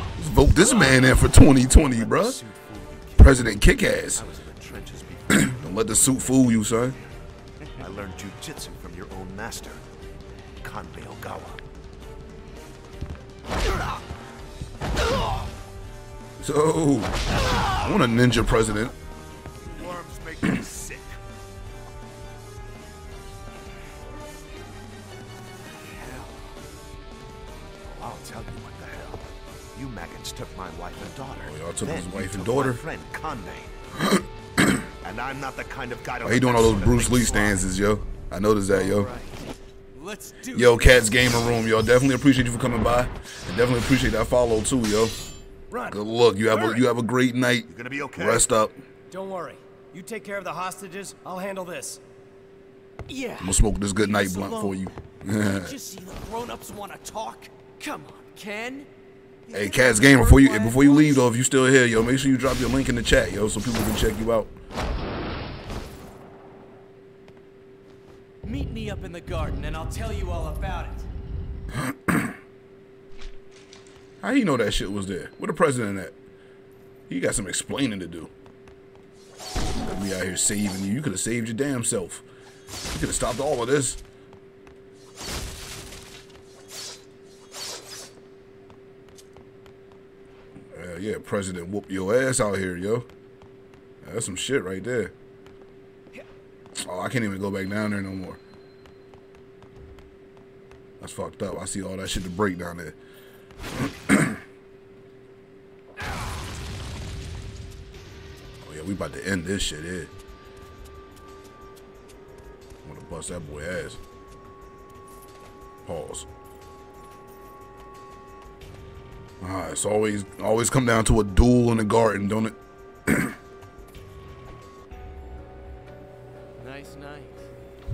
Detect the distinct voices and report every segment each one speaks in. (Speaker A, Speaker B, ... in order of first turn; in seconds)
Speaker A: 0.2-2.4, 3.2-4.2, 5.3-7.0, 16.4-18.9, 31.4-32.8, 34.0-34.9, 36.2-39.1, 40.5-45.1, 45.9-48.8, 53.4-55.7, 59.5-64.5, 71.7-72.4, 74.2-76.2, 77.1-78.3, 79.9-82.2, 82.9-84.0, 90.7-93.1, 94.0-95.1, 96.8-98.4, 101.0-103.0, 103.7-104.4, 108.6-110.1, 112.8-114.0, 115.9-116.3, 119.4-123.4
Speaker B: 0.6-6.3, 7.8-9.8, 10.6-11.7, 19.7-21.2, 27.8-33.8, 35.0-37.7, 47.7-48.5
Speaker C: 25.8-26.5, 38.7-41.1, 53.1-58.9, 59.5-61.3, 68.4-71.1, 126.6-127.5
Speaker D: 45.7-46.0, 46.5-46.8, 49.1-52.0